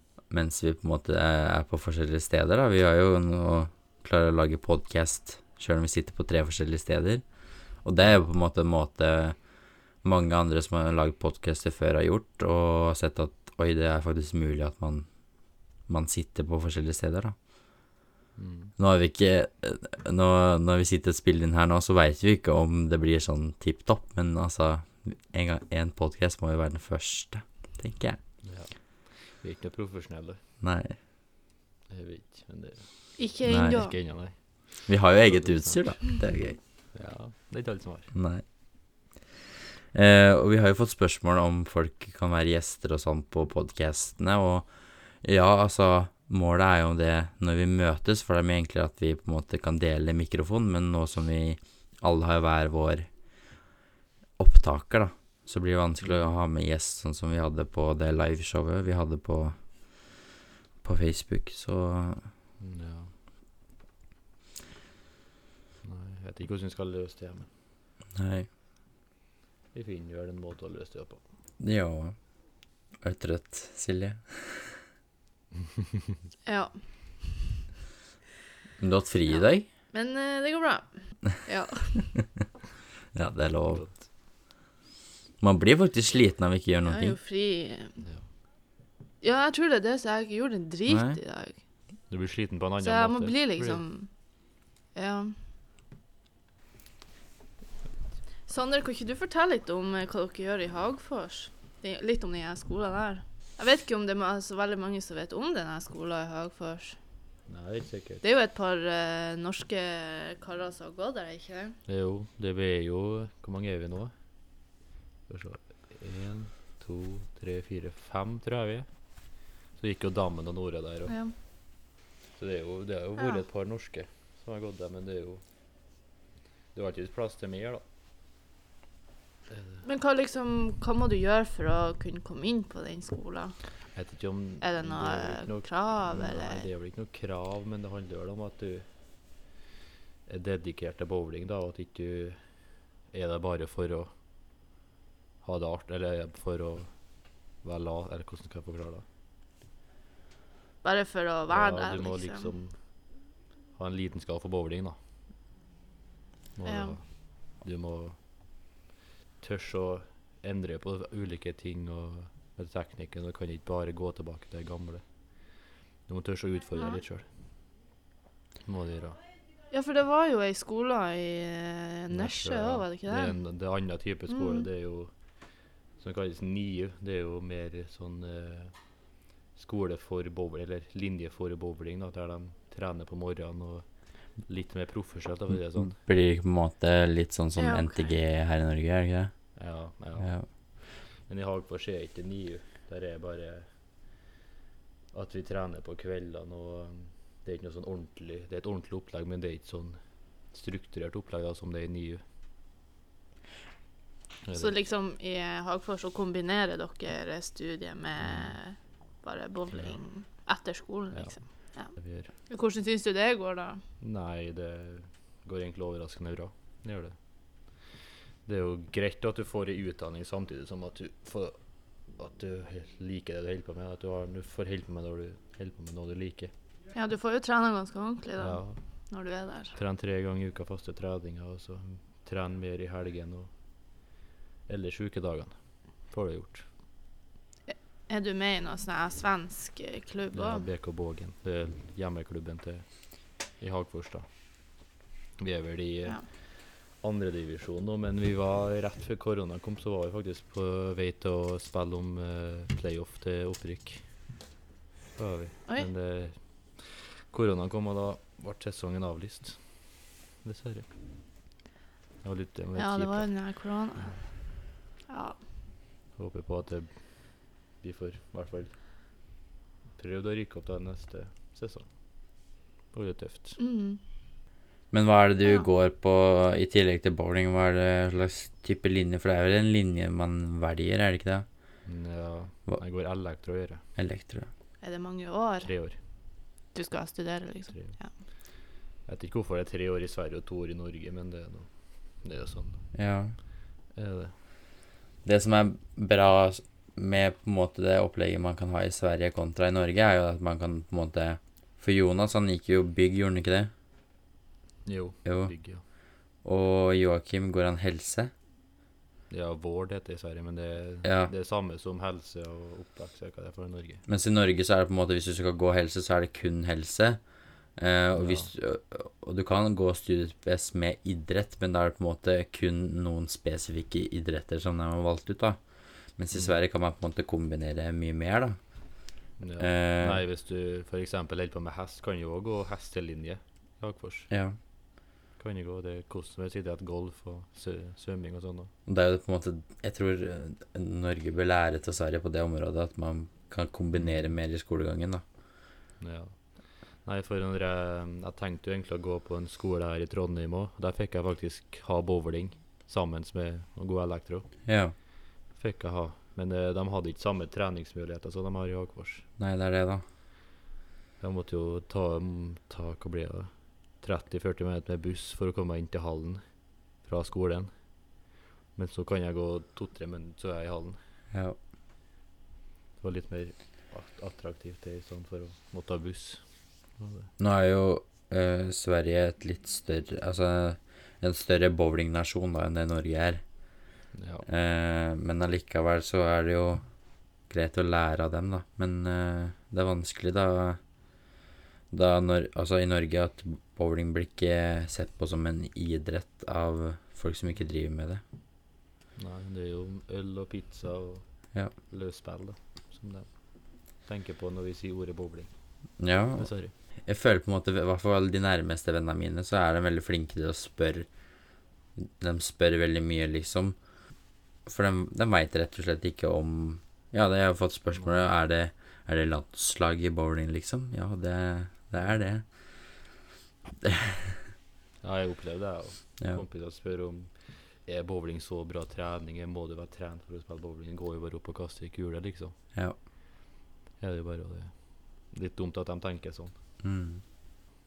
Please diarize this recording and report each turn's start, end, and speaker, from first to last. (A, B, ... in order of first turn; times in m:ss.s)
0:00.3-0:07.2 A
0:07.8-0:09.4 A
0:10.0-0:15.1 A
0:15.9-0:17.3 A
0:18.4-0:18.7 B
0:18.8-0:28.2 A
0:28.4-0:30.4 B
0:30.6-0:31.0 A
0:31.9-0:33.1 B
0:33.2-0:33.9 C
0:33.5-0:33.8 A
0:33.6-0:35.8 B
0:34.9-0:36.6 A
0:36.9-0:38.1 B
0:38.1-0:38.4 A
0:39.9-0:44.7 A
0:45.2-0:53.1 A
0:54.4-0:59.6 A
0:56.0-0:56.3 B
1:00.8-1:02.3 A
1:02.6-1:03.1 B
1:05.8-1:07.5 B
1:08.1-1:08.5 A
1:09.7-1:11.2 B
1:11.6-1:12.2 A
1:13.0-1:14.8 A
1:16.4-1:17.4 C
1:18.8-1:19.7 A
1:19.9-1:22.1 C
1:23.1-1:23.8 A
1:23.7-1:24.0 B
1:25.4-1:27.2 A
1:26.8-1:28.0 C
1:29.2-1:31.6 C
1:30.9-1:31.2 A
1:32.1-1:33.8 B
1:32.8-1:34.1 C
1:34.9-1:35.4 C
1:38.5-1:47.0 C
1:47.5-1:48.2 B
1:48.2-1:51.7 C
1:51.9-1:54.1 B
1:55.3-1:58.9 B
1:59.8-2:01.1 B
2:01.1-2:01.3 C
2:02.4-2:05.4 B
2:03.2-2:03.4 C
2:06.7-2:07.8 B
2:09.5-2:09.8 B
2:09.8-2:13.6 C
2:13.9-2:18.8 B
2:14.6-2:16.7 C
2:20.3-2:22.4 B
2:23.1-2:24.1 B
2:25.4-2:26.9 B
2:27.6-2:29.0 B
2:30.8-2:32.5 C
2:31.5-2:32.8 B
2:33.8-2:35.0 B
2:36.6-2:37.1 B
2:36.7-2:37.0 C
2:37.6-2:38.2 B
2:39.4-2:45.0 B
2:46.1-2:47.2 B
2:46.7-2:47.0 C
2:48.6-2:49.2 B
2:49.7-2:53.4 C
2:52.1-2:55.1 B
2:54.3-2:54.7 C
2:56.0-2:58.7 B
2:59.6-3:03.8 B
3:04.4-3:06.0 B
3:05.7-3:09.3 A
3:07.6-3:08.1 C
3:09.6-3:13.7 B
3:10.2-3:10.4 A
3:15.1-3:20.0 B
3:20.5-3:22.2 B
3:24.4-3:24.8 B
3:24.6-3:31.9 C
3:28.2-3:28.6 B
3:31.1-3:31.4 B
3:31.9-3:32.3 B
3:32.5-3:33.8 C
3:34.0-3:37.2 B
3:38.4-3:41.6 B
3:42.2-3:46.5 B
3:46.9-3:49.8 C
3:48.4-3:48.8 B
3:49.8-3:53.5 B
3:54.7-3:55.5 B
3:56.1-3:56.7 B
3:57.7-4:00.7 C
4:00.3-4:02.9 B
4:03.6-4:04.2 B
4:05.4-4:06.3 B
4:07.0-4:14.0 B
4:15.2-4:19.6 B
4:20.4-4:20.9 B
4:22.2-4:23.3 B
4:22.8-4:24.2 C
4:25.1-4:25.4 C
4:26.2-4:27.3 B
4:27.8-4:28.8 B
4:30.0-4:31.9 B
4:32.9-4:33.6 B
4:33.6-4:34.0 C
4:34.9-4:41.4 A
4:41.8-4:43.8 B
4:44.0-4:44.5 A
4:44.8-4:45.7 C
4:45.6-4:46.0 B
4:46.7-4:48.1 C
4:49.1-4:51.7 B
4:52.2-4:52.8 B
4:52.9-4:53.4 A
4:53.9-4:54.3 B
4:55.2-5:03.7 A
5:04.8-5:05.8 B
5:05.2-5:05.5 A
5:06.4-5:08.3 A
5:09.3-5:14.0 B
5:11.0-5:11.3 A
5:14.1-5:17.2 A
5:17.8-5:25.6 A
5:18.2-5:18.5 B
5:26.2-5:28.6 A
5:26.3-5:26.6 B
5:29.4-5:34.3 B
5:29.6-5:30.2 A
5:34.3-5:34.6 A
5:35.4-5:38.7 B
5:38.9-5:45.2 A
5:44.0-5:44.3 B
5:46.0-5:46.4 B
5:47.0-5:54.5 B
5:54.7-5:54.9 A
5:55.6-5:59.2 B
5:59.4-6:00.0 A
6:01.2-6:06.4 B
6:07.0-6:07.7 B
6:08.8-6:11.0 B
6:11.3-6:11.6 A
6:13.0-6:16.4 B
6:17.0-6:17.3 B
6:17.4-6:23.4 A
6:24.1-6:24.4 B
6:24.4-6:26.8 A
6:27.5-6:30.8 A
6:31.9-6:38.2 A
6:39.2-6:41.2 B
6:41.9-6:43.3 B
6:44.0-6:45.5 B
6:46.0-6:46.5 A
6:46.4-6:46.7 B
6:47.1-6:51.1 A
6:52.0-6:53.8 A
6:54.7-7:02.4 A
6:58.0-6:58.2 B
7:03.8-7:04.4 A
7:05.0-7:12.6 B
7:14.0-7:14.7 B
7:15.3-7:16.5 B
7:16.8-7:17.2 A